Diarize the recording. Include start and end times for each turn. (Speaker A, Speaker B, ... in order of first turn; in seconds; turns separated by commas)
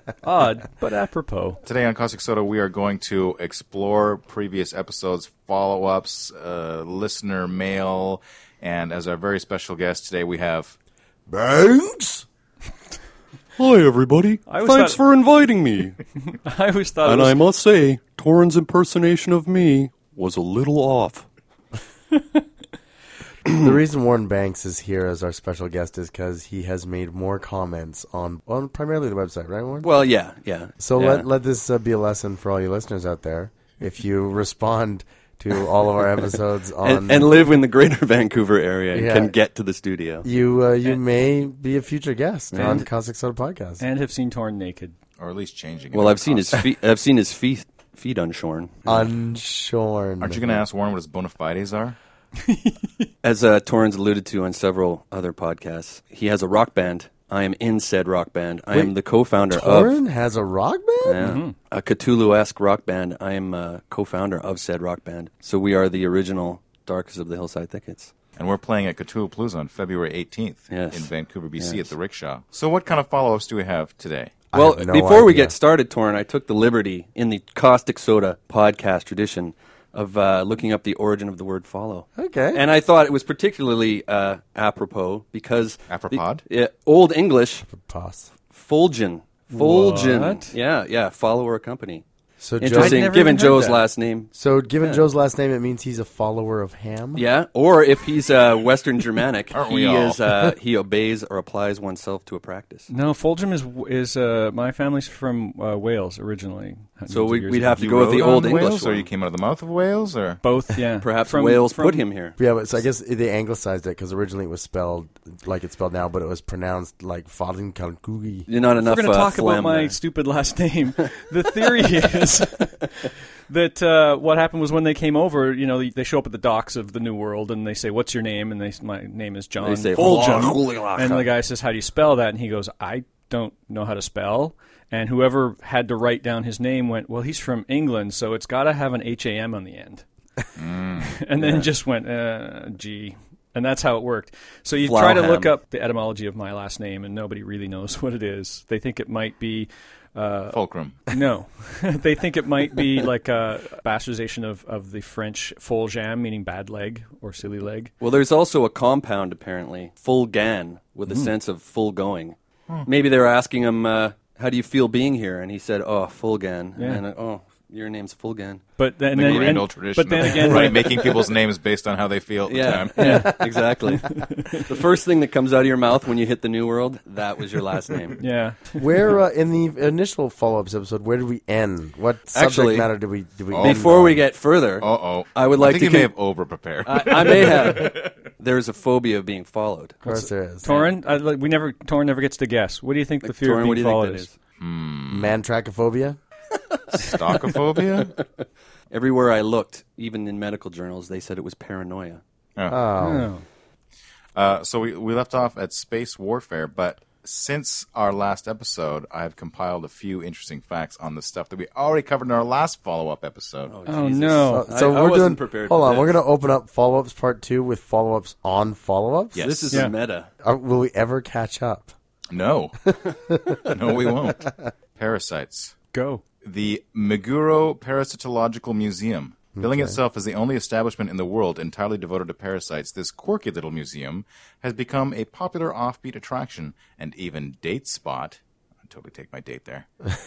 Speaker A: 0.2-1.6, Speaker B: 1.6-10.8, Speaker C: 11.3-12.2, Speaker D: 13.6-16.0, Speaker A: 14.5-15.0, Speaker A: 16.3-17.4, Speaker D: 17.0-21.3, Speaker C: 23.5-30.0, Speaker D: 29.8-31.3, Speaker C: 30.8-37.4, Speaker D: 36.8-40.3, Speaker C: 38.9-39.4, Speaker C: 40.2-43.8, Speaker D: 42.5-42.8, Speaker A: 42.5-42.9, Speaker A: 43.8-45.0, Speaker B: 45.2-46.6, Speaker D: 45.9-48.8, Speaker C: 48.9-50.6, Speaker B: 50.2-52.0, Speaker A: 52.5-53.0, Speaker D: 53.2-60.0, Speaker C: 59.5-61.2, Speaker D: 61.0-68.1, Speaker A: 61.2-61.5, Speaker B: 68.4-74.4, Speaker D: 70.7-71.9, Speaker C: 74.5-75.6, Speaker D: 74.5-87.7, Speaker C: 82.2-82.6, Speaker B: 85.9-86.4, Speaker C: 87.6-88.3, Speaker D: 88.5-92.0, Speaker A: 89.5-90.5, Speaker C: 92.4-93.8, Speaker D: 92.6-95.1, Speaker A: 92.7-93.8, Speaker C: 94.3-97.2, Speaker D: 97.2-102.9, Speaker B: 99.5-100.5, Speaker A: 102.9-107.9, Speaker D: 107.1-109.1, Speaker B: 107.8-110.4, Speaker A: 110.4-112.0, Speaker D: 111.0-112.4, Speaker C: 112.4-118.5, Speaker D: 118.5-120.0, Speaker A: 118.8-140.0, Speaker D: 129.6-131.3, Speaker B: 140.6-141.1, Speaker A: 141.0-157.9, Speaker D: 141.4-141.7, Speaker D: 144.8-145.5, Speaker B: 150.5-151.0, Speaker D: 158.0-168.7, Speaker A: 161.1-161.3, Speaker A: 166.8-167.0, Speaker A: 168.8-170.8, Speaker B: 169.1-173.2, Speaker D: 169.2-169.6, Speaker D: 170.2-171.4, Speaker D: 172.5-178.2, Speaker A: 173.0-173.3, Speaker C: 173.0-174.0, Speaker A: 174.0-174.7, Speaker A: 178.2-178.9, Speaker C: 178.8-184.2, Speaker D: 182.3-182.9, Speaker B: 183.5-184.2, Speaker D: 183.6-186.1, Speaker B: 184.8-188.0, Speaker D: 186.8-190.0, Speaker A: 190.0-194.3, Speaker C: 190.1-190.7, Speaker D: 190.6-190.9, Speaker D: 193.2-194.4, Speaker B: 194.6-195.3, Speaker C: 195.1-196.2, Speaker D: 196.8-198.3, Speaker B: 196.9-198.1, Speaker D: 198.9-202.2, Speaker C: 202.7-203.3, Speaker A: 203.0-203.4, Speaker B: 204.4-213.7, Speaker D: 213.7-216.2, Speaker A: 213.9-214.7, Speaker C: 214.5-219.5, Speaker B: 219.3-219.8, Speaker D: 219.4-220.3, Speaker C: 220.4-221.9, Speaker B: 222.3-223.0, Speaker C: 222.9-224.7, Speaker B: 223.6-225.8, Speaker A: 225.9-226.2, Speaker B: 226.4-239.9, Speaker C: 229.6-230.0